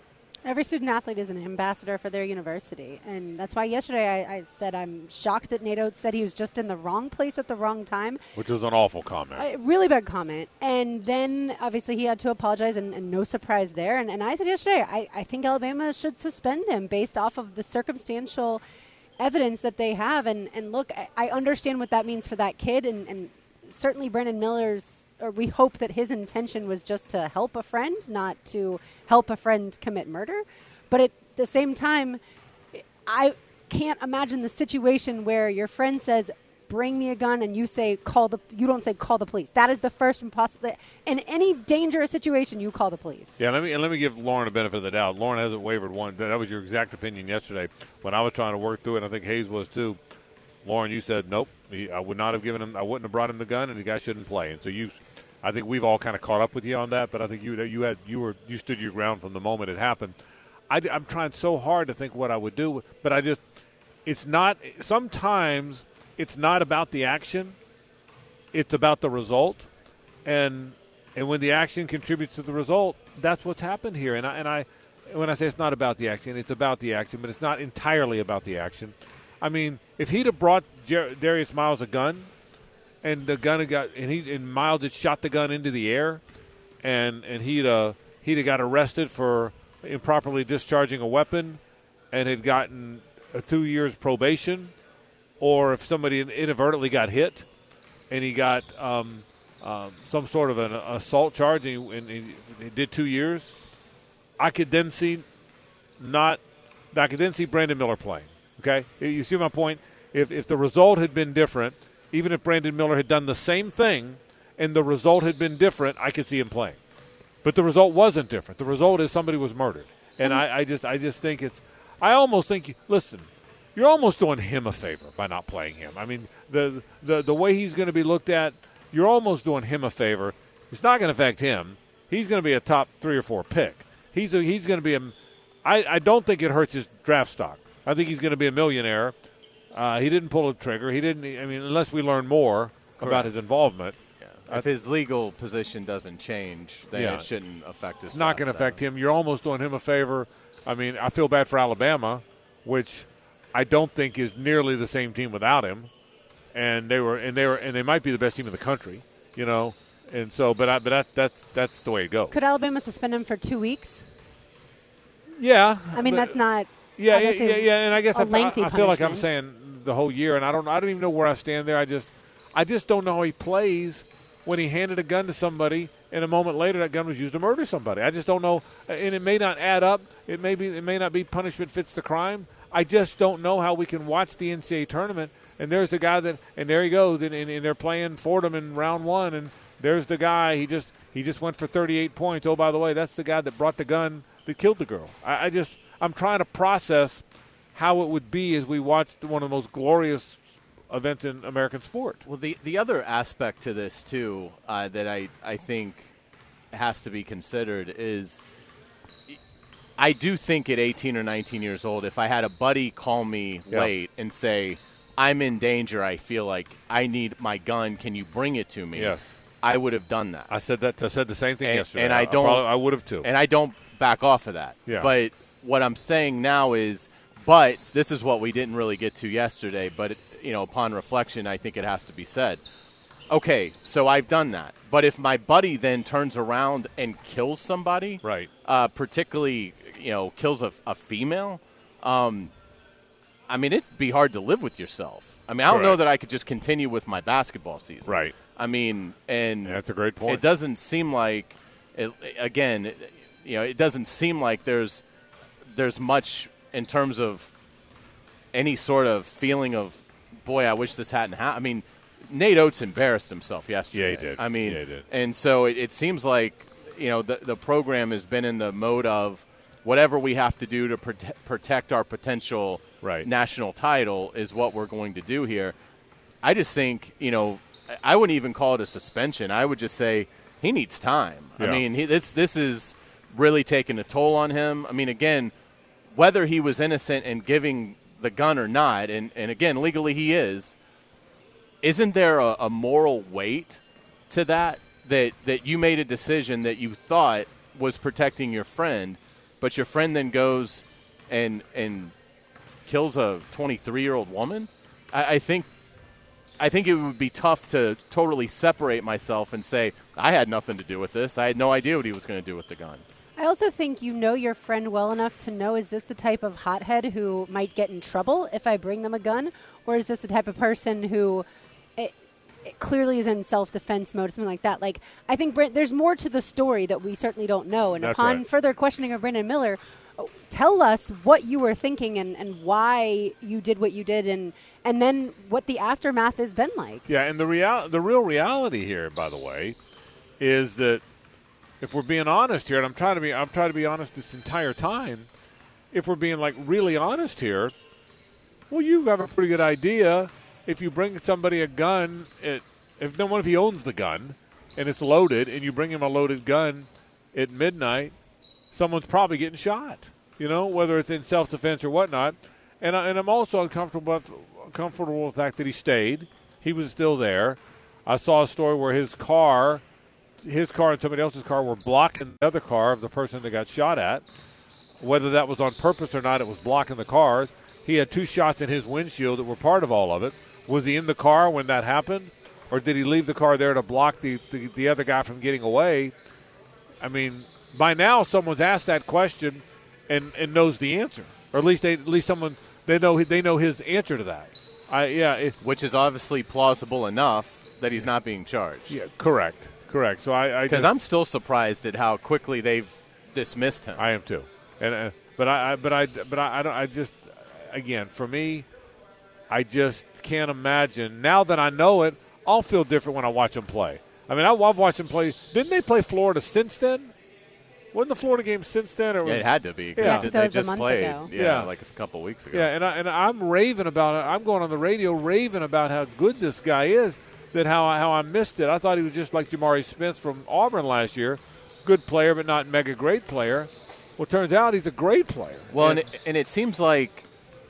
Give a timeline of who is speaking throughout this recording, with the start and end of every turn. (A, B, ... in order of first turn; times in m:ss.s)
0:00.4-0:08.2 A
0:08.4-0:09.5 B
0:09.4-0:18.6 A
0:19.2-0:32.2 A
0:33.1-0:43.3 A
0:43.4-0:50.0 B
0:50.6-1:00.2 B
1:00.7-1:03.4 B
1:04.0-1:07.6 B
1:08.5-1:09.7 B
1:10.2-1:22.3 B
1:23.0-1:26.2 B
1:26.8-1:31.6 B
1:32.1-1:34.7 B
1:35.4-1:37.5 B
1:38.1-1:43.5 B
1:44.4-1:45.3 B
1:46.0-1:46.4 B
1:46.9-1:56.8 B
1:57.4-2:19.2 B
2:19.7-2:24.0 B
2:23.0-2:23.3 C
2:24.2-2:28.8 C
2:26.9-2:27.3 B
2:28.1-2:35.9 B
2:36.5-2:42.3 B
2:42.3-2:44.0 A
2:45.4-2:46.4 B
2:45.9-2:49.2 A
2:47.0-3:17.2 B
3:17.7-3:22.2 B
3:22.3-3:26.1 C
3:26.7-3:28.4 C
3:30.0-3:40.5 C
3:39.0-3:39.4 B
3:40.5-3:43.3 B
3:41.6-3:52.6 C
3:44.9-3:45.1 B
3:53.3-4:02.5 C
3:58.2-3:58.5 B
4:03.5-4:15.0 C
4:05.7-4:06.0 B
4:08.0-4:08.4 B
4:09.6-4:10.4 B
4:15.6-4:17.5 C
4:18.5-4:35.8 C
4:23.9-4:25.0 B
4:33.0-4:33.3 B
4:36.4-4:45.5 C
4:41.6-4:41.8 B
4:46.1-4:50.8 C
4:51.8-5:02.1 C
5:02.9-5:05.7 C
5:06.6-5:13.0 C
5:13.4-5:21.5 A
5:22.6-5:37.1 A
5:28.0-5:28.4 B
5:37.1-5:39.8 B
5:40.4-5:41.0 B
5:41.8-5:45.3 B
5:45.9-5:47.7 B
5:48.7-5:58.2 B
5:58.7-6:09.8 B
6:10.4-6:14.2 B
6:15.0-6:26.1 B
6:27.0-6:35.6 B
6:35.6-6:39.0 C
6:38.9-6:40.9 B
6:40.7-6:44.0 C
6:44.0-6:48.7 B
6:49.5-6:57.1 B
6:57.9-7:00.3 B
6:59.2-7:02.7 C
7:00.0-7:01.3 A
7:01.4-7:01.7 B
7:02.5-7:16.1 B
7:15.7-7:17.3 C